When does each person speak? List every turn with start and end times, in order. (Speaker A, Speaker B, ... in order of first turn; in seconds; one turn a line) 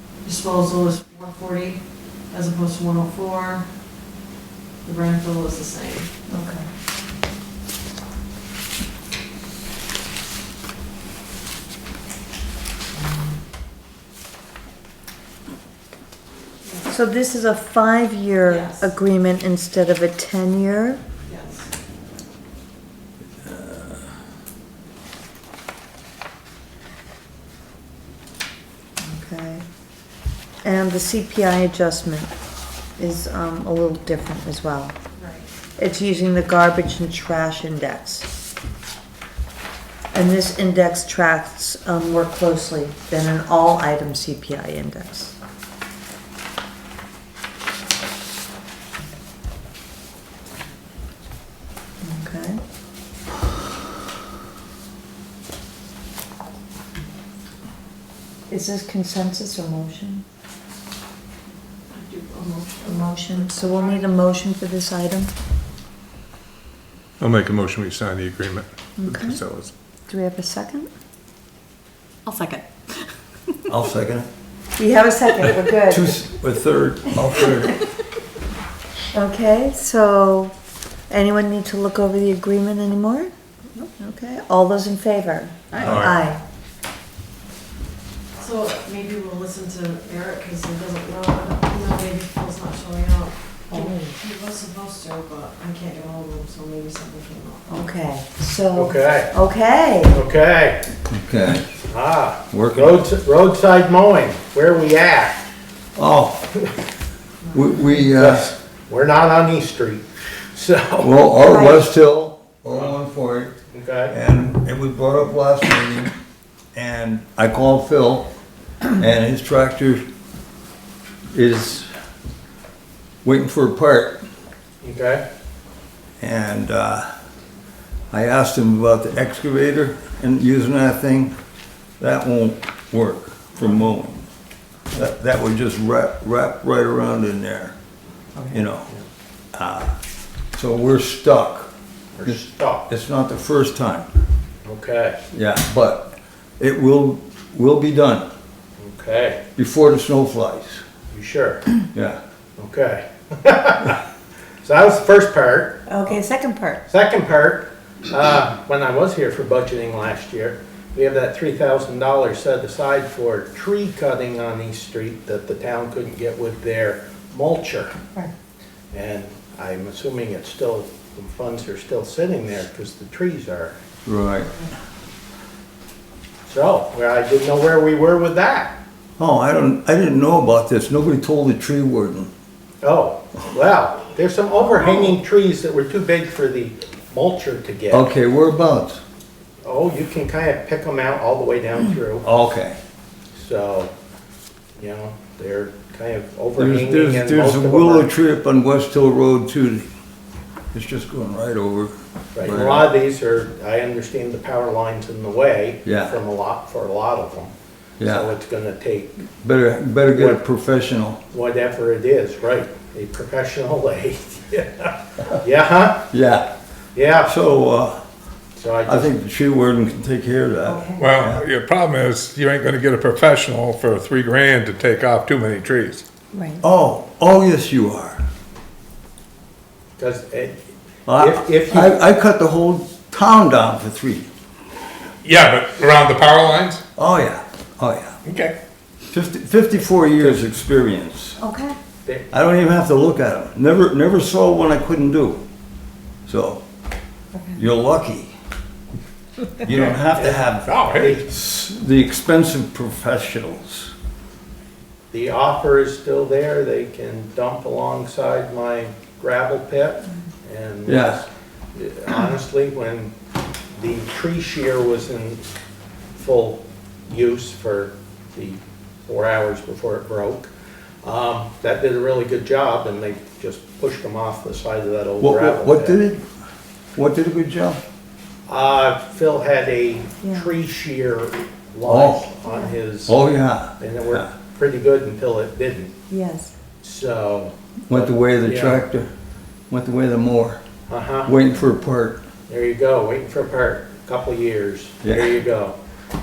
Speaker A: 0.2-3.7
Speaker A: 4.8-6.1
Speaker B: 6.3-6.7
Speaker A: 16.6-16.9
Speaker B: 16.9-21.0
Speaker A: 18.5-18.9
Speaker A: 21.2-21.7
Speaker C: 23.4-23.9
Speaker B: 29.0-29.6
Speaker B: 30.6-32.3
Speaker B: 33.0-34.9
Speaker A: 35.2-35.5
Speaker B: 35.8-38.3
Speaker B: 40.1-45.4
Speaker B: 52.0-52.6
Speaker B: 58.5-60.2
Speaker A: 61.9-64.1
Speaker B: 62.8-65.3
Speaker D: 67.2-69.7
Speaker B: 69.0-69.4
Speaker B: 70.1-70.9
Speaker C: 73.7-74.3
Speaker B: 74.8-76.2
Speaker C: 75.9-77.8
Speaker B: 79.1-80.5
Speaker B: 81.1-86.4
Speaker D: 85.8-86.2
Speaker A: 88.4-97.7
Speaker B: 93.7-94.2
Speaker B: 97.7-100.2
Speaker E: 98.8-99.3
Speaker E: 100.1-100.8
Speaker C: 101.1-101.7
Speaker E: 101.9-105.4
Speaker C: 102.5-103.0
Speaker C: 106.0-106.5
Speaker C: 107.5-108.5
Speaker E: 108.1-111.1
Speaker C: 111.0-113.5
Speaker B: 111.4-111.8
Speaker E: 113.7-114.2
Speaker C: 114.1-116.1
Speaker C: 116.8-118.3
Speaker C: 118.9-120.0
Speaker C: 121.3-121.9
Speaker C: 123.2-124.2
Speaker E: 124.8-125.2
Speaker C: 126.2-127.0
Speaker C: 128.1-131.3
Speaker C: 132.0-134.3
Speaker C: 134.9-137.8
Speaker C: 138.5-138.9
Speaker C: 139.5-139.9
Speaker C: 140.6-141.7
Speaker E: 142.2-142.9
Speaker C: 142.3-144.1
Speaker E: 144.7-145.2
Speaker C: 145.3-148.3
Speaker E: 148.8-149.4
Speaker C: 149.6-150.8
Speaker E: 151.1-151.6
Speaker C: 151.9-152.2
Speaker E: 152.6-154.0
Speaker E: 154.6-155.9
Speaker B: 155.9-156.8
Speaker E: 156.9-168.0
Speaker E: 168.9-173.8
Speaker C: 174.1-174.5
Speaker E: 176.5-178.8
Speaker C: 179.2-182.3
Speaker E: 182.8-188.1
Speaker C: 187.9-189.0
Speaker E: 189.6-192.3
Speaker C: 192.2-192.8
Speaker E: 193.3-193.9
Speaker E: 194.8-198.1
Speaker C: 196.6-199.9
Speaker C: 200.7-202.9
Speaker E: 202.3-209.2
Speaker C: 205.8-206.2
Speaker C: 208.0-208.3
Speaker C: 209.4-211.2
Speaker E: 210.1-210.4
Speaker E: 211.3-216.1
Speaker C: 216.1-216.5
Speaker E: 216.9-217.3
Speaker C: 217.2-218.0
Speaker E: 218.6-219.1
Speaker C: 218.9-221.4
Speaker B: 220.7-221.0
Speaker D: 221.0-226.0
Speaker B: 226.3-226.6
Speaker C: 226.6-228.2
Speaker E: 230.0-230.6
Speaker C: 231.1-234.3
Speaker E: 231.2-232.0
Speaker D: 235.2-236.8
Speaker C: 237.0-238.2
Speaker D: 238.2-238.6
Speaker C: 239.1-241.4
Speaker B: 241.4-241.8
Speaker C: 242.3-245.4
Speaker C: 246.3-246.6
Speaker C: 247.6-248.3
Speaker C: 249.6-253.9
Speaker E: 250.2-250.5
Speaker D: 250.7-251.2
Speaker E: 255.1-263.1
Speaker C: 260.9-261.2
Speaker E: 263.8-265.4
Speaker E: 266.1-270.5
Speaker E: 271.0-276.0
Speaker C: 275.2-276.2
Speaker C: 277.0-277.8
Speaker E: 278.5-283.2
Speaker B: 280.2-280.5
Speaker C: 281.8-282.3
Speaker B: 282.5-282.8
Speaker C: 283.1-284.3
Speaker E: 283.8-285.9
Speaker B: 286.1-286.5
Speaker E: 286.8-288.8
Speaker C: 287.9-289.1
Speaker C: 289.7-290.6
Speaker E: 290.9-291.3
Speaker C: 291.2-292.2
Speaker E: 292.5-295.8
Speaker C: 295.0-295.4